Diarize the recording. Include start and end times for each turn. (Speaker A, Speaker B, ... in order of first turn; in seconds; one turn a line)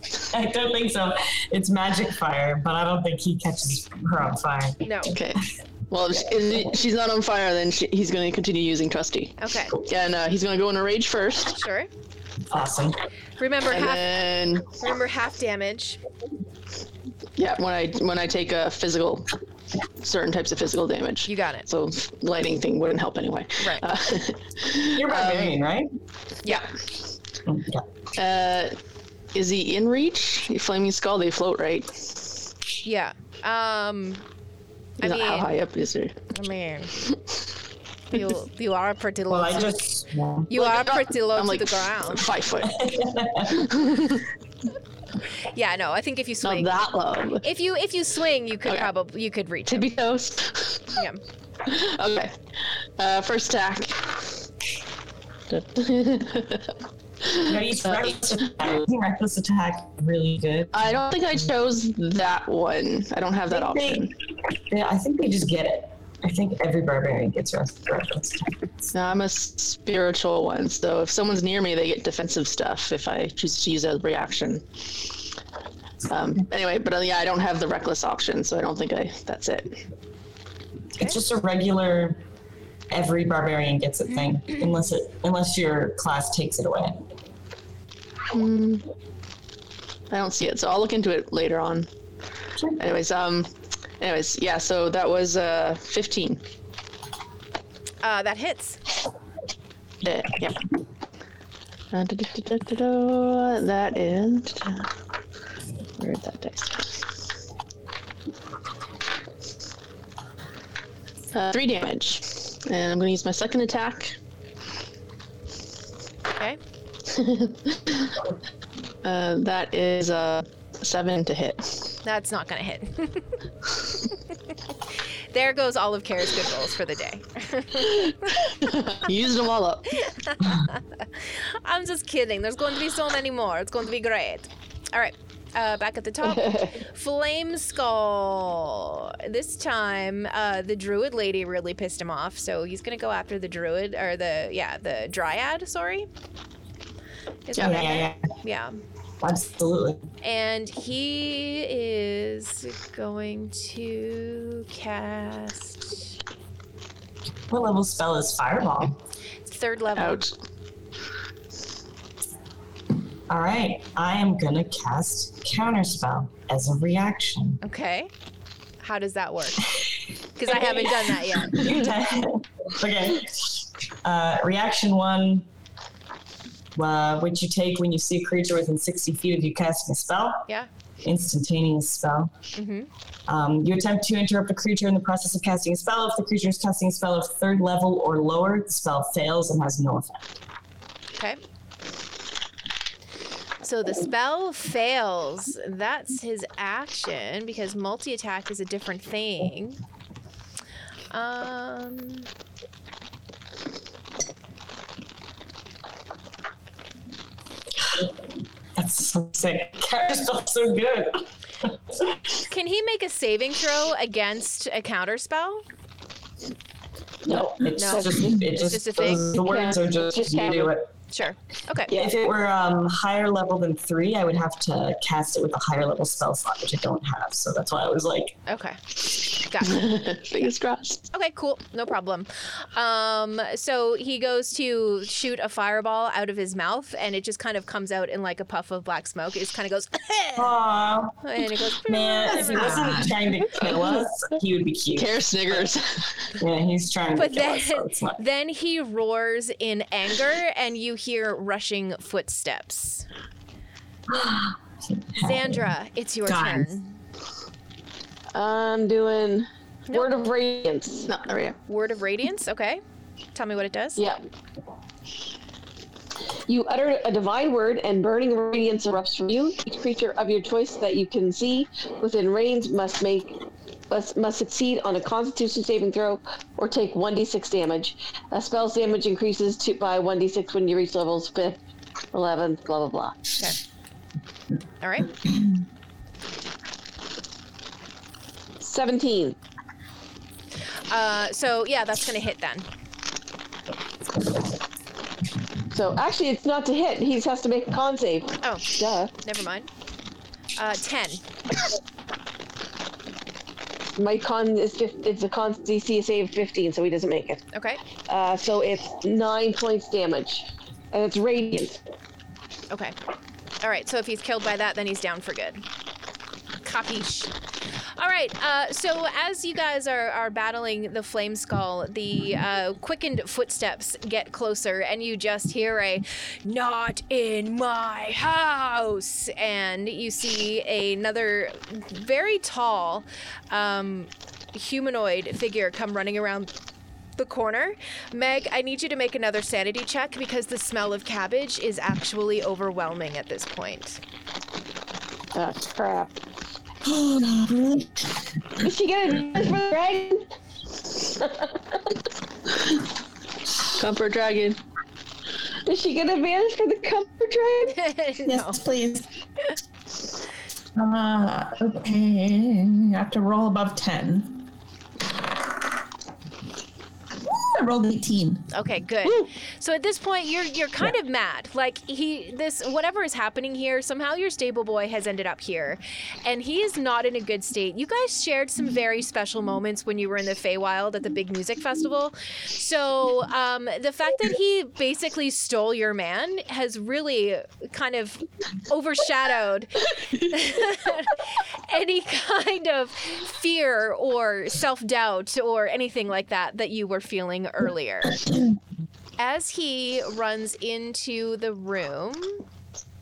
Speaker A: 0.2-5.2
Speaker B: 4.8-5.2
Speaker C: 5.1-11.6
Speaker B: 9.4-9.7
Speaker B: 11.6-11.9
Speaker A: 12.5-13.0
Speaker B: 13.4-16.0
Speaker C: 13.7-14.7
Speaker C: 17.4-19.4
Speaker C: 20.0-25.6
Speaker B: 21.3-21.6
Speaker A: 24.9-25.9
Speaker A: 27.4-27.9
Speaker C: 28.1-28.8
Speaker C: 29.3-32.2
Speaker B: 32.8-34.2
Speaker B: 35.0-35.5
Speaker C: 35.0-36.2
Speaker B: 36.3-36.9
Speaker B: 38.1-39.8
Speaker A: 39.3-40.5
Speaker B: 40.5-42.3
Speaker C: 40.5-42.9
Speaker A: 42.6-44.2
Speaker C: 43.5-44.2
Speaker B: 45.5-46.8
Speaker C: 46.4-47.4
Speaker B: 47.4-49.9
Speaker C: 49.7-50.9
Speaker B: 51.0-51.2
Speaker C: 51.6-54.2
Speaker C: 55.5-58.5
Speaker A: 57.4-61.0
Speaker C: 60.7-64.1
Speaker A: 63.5-64.1
Speaker A: 64.7-68.9
Speaker C: 68.9-75.1
Speaker C: 76.1-79.8
Speaker A: 81.0-82.2
Speaker A: 82.9-87.0
Speaker C: 88.3-88.9
Speaker C: 90.1-91.9
Speaker C: 92.8-96.4
Speaker B: 98.0-98.8
Speaker C: 100.0-100.6
Speaker C: 101.9-104.9
Speaker C: 106.0-107.0
Speaker C: 111.3-114.2
Speaker C: 117.1-118.2
Speaker C: 119.0-122.0
Speaker B: 122.0-123.3
Speaker B: 125.3-128.1
Speaker C: 127.8-129.9
Speaker B: 130.1-146.1
Speaker D: 136.3-136.7
Speaker B: 147.5-148.8
Speaker C: 147.6-147.8
Speaker A: 147.6-148.2
Speaker A: 149.2-150.0
Speaker B: 150.2-156.1
Speaker A: 157.5-159.0
Speaker B: 159.5-160.2
Speaker C: 159.9-160.3
Speaker A: 163.3-167.6
Speaker B: 167.6-168.1
Speaker B: 168.8-169.7
Speaker B: 170.3-171.7
Speaker A: 170.5-175.4
Speaker A: 176.7-180.5
Speaker A: 181.0-182.3
Speaker B: 182.5-182.9
Speaker A: 183.3-190.3
Speaker B: 193.6-199.8
Speaker B: 201.1-202.3
Speaker A: 207.8-208.1
Speaker A: 208.8-212.2
Speaker B: 212.5-215.6
Speaker D: 217.3-218.3
Speaker A: 217.3-220.9
Speaker B: 217.8-219.3
Speaker D: 219.2-220.7
Speaker B: 221.1-221.9
Speaker A: 221.9-228.4
Speaker B: 228.5-228.8
Speaker B: 229.3-229.8
Speaker C: 229.6-231.0
Speaker B: 231.1-240.5
Speaker A: 240.4-241.2
Speaker B: 241.2-243.1
Speaker A: 241.7-245.7
Speaker E: 242.3-243.2
Speaker C: 243.6-244.0
Speaker C: 244.9-246.3
Speaker A: 246.4-248.2
Speaker B: 247.1-253.1
Speaker A: 254.1-255.6
Speaker B: 255.2-256.9
Speaker E: 256.2-256.7
Speaker D: 258.3-261.1
Speaker B: 259.9-260.1
Speaker C: 261.1-261.6
Speaker B: 261.7-262.8
Speaker B: 263.3-264.0
Speaker D: 266.5-273.4
Speaker D: 273.9-281.6
Speaker D: 282.1-283.2
Speaker B: 284.8-285.2
Speaker D: 288.6-289.4
Speaker B: 290.9-292.6
Speaker D: 295.7-299.1
Speaker B: 298.4-299.7
Speaker B: 300.6-301.2
Speaker D: 303.9-307.4
Speaker B: 307.5-307.8
Speaker D: 308.1-311.8
Speaker B: 312.7-312.9
Speaker B: 313.6-315.6
Speaker B: 316.6-317.3
Speaker B: 318.0-336.5
Speaker B: 337.2-344.0
Speaker D: 345.3-346.2
Speaker E: 346.9-348.0
Speaker D: 348.6-350.2
Speaker D: 350.9-351.9
Speaker C: 353.6-354.6
Speaker D: 355.6-357.8
Speaker B: 357.7-358.6
Speaker E: 358.2-359.1
Speaker E: 360.8-364.4
Speaker E: 367.2-368.5
Speaker B: 368.5-398.2
Speaker B: 399.2-402.4